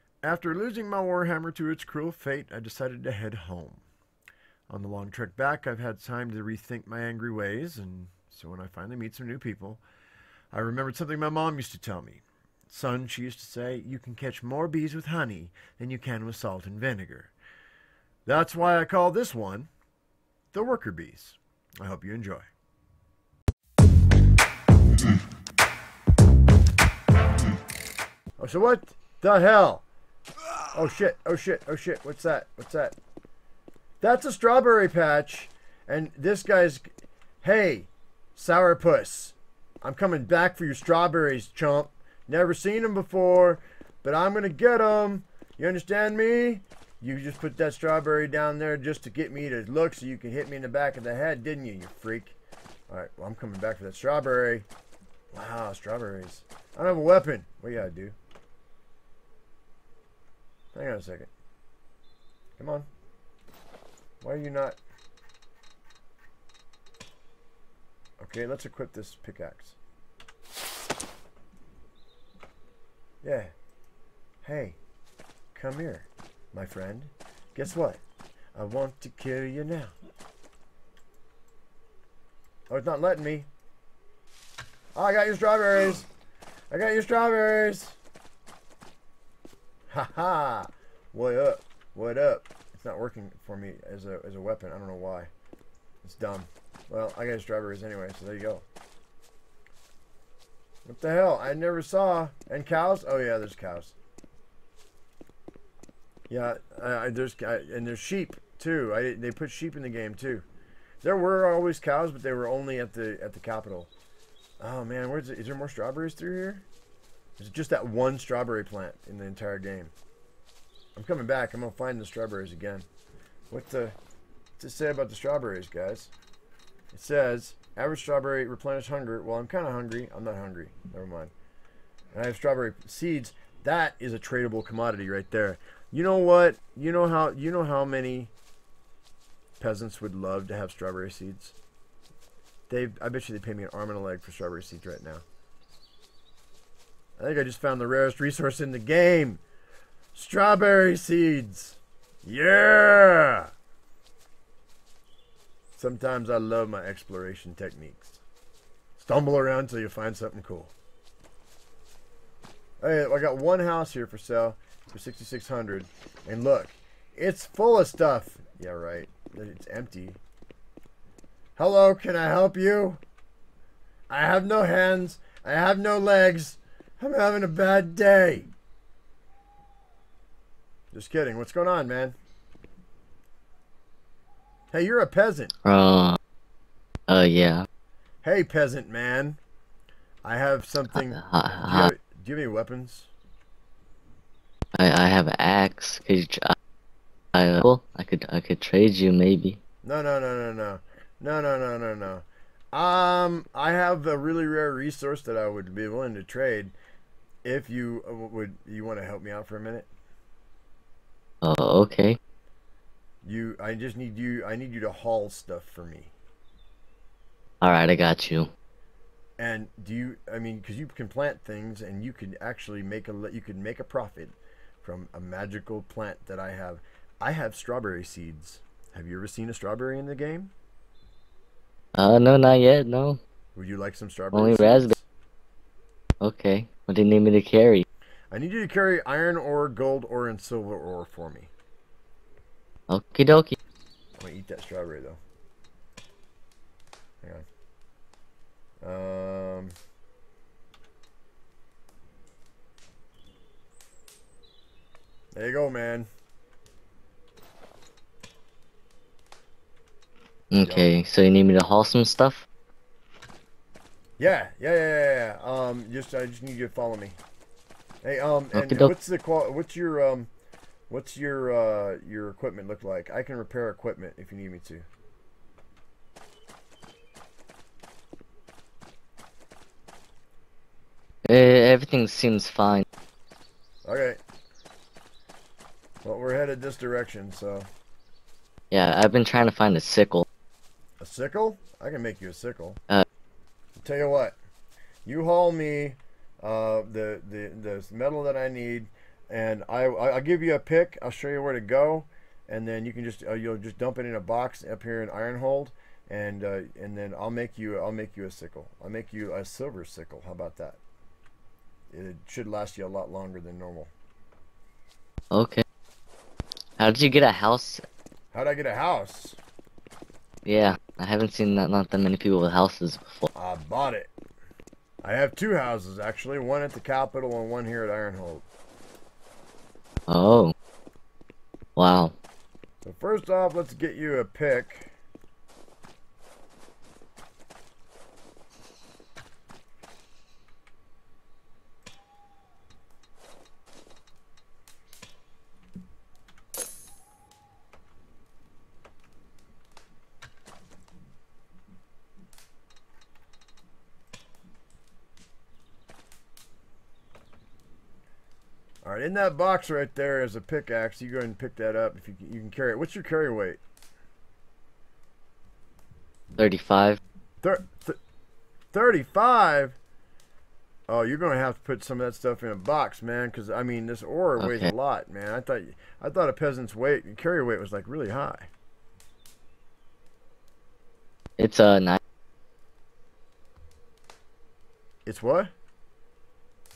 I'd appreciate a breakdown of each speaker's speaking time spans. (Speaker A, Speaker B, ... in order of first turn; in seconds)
Speaker A: 0.2-3.8, 4.7-9.8, 10.5-17.3, 18.2-19.7, 20.5-22.5, 28.4-29.8, 30.7-32.9, 34.0-36.9, 37.4-52.4, 52.9-54.6, 55.3-58.1, 60.7-61.3, 62.6-62.9, 64.2-64.8, 68.2-69.8, 73.2-73.5, 74.4-74.8, 75.5-78.0, 78.5-79.9, 82.7-83.5, 84.9-86.0, 86.7-88.0, 89.9-95.3, 96.0-98.6, 100.8-103.9, 106.3-110.4, 111.0-113.9, 114.6-116.6, 117.4-119.9, 121.0-122.8, 123.5-124.0, 124.6-126.1, 126.9-131.3, 132.1-138.3, 139.6-141.5, 142.7-145.2, 147.2-149.4, 150.1-153.5, 155.8-158.2, 159.0-160.7, 162.8-170.2, 171.6-173.0, 174.1-178.5, 180.9-182.2, 184.7-185.5, 188.2-189.4, 190.2-193.1, 199.8-206.7, 207.4-209.9, 213.2-216.1, 219.4-230.5, 233.5-235.0, 238.3-241.5, 244.2-245.2, 248.8-249.7, 255.3-256.1, 260.6-260.9, 264.2-267.2, 268.0-270.3, 270.9-274.8, 283.8-284.2, 286.0-287.7, 291.0-292.8, 293.8-294.4, 295.1-310.8, 311.9-313.9, 318.3-319.4, 323.3-324.1, 325.0-328.4, 332.8-334.9, 358.8-363.6, 367.4-368.0, 368.7-369.7, 370.9-378.5, 385.1-385.5
Speaker B: 185.6-186.2, 187.1-187.6, 190.9-191.9, 194.8-196.5, 197.3-199.6, 211.4-212.2, 217.6-218.5, 231.9-233.2, 234.3-234.9, 236.2-237.8, 242.9-243.5, 260.5-262.4, 268.5-268.9, 281.2-282.8, 288.7-290.2, 315.3-315.6, 316.8-317.8, 320.4-323.3, 330.1-330.5, 331.8-332.1, 366.3-367.0, 374.4-374.7, 381.4-382.0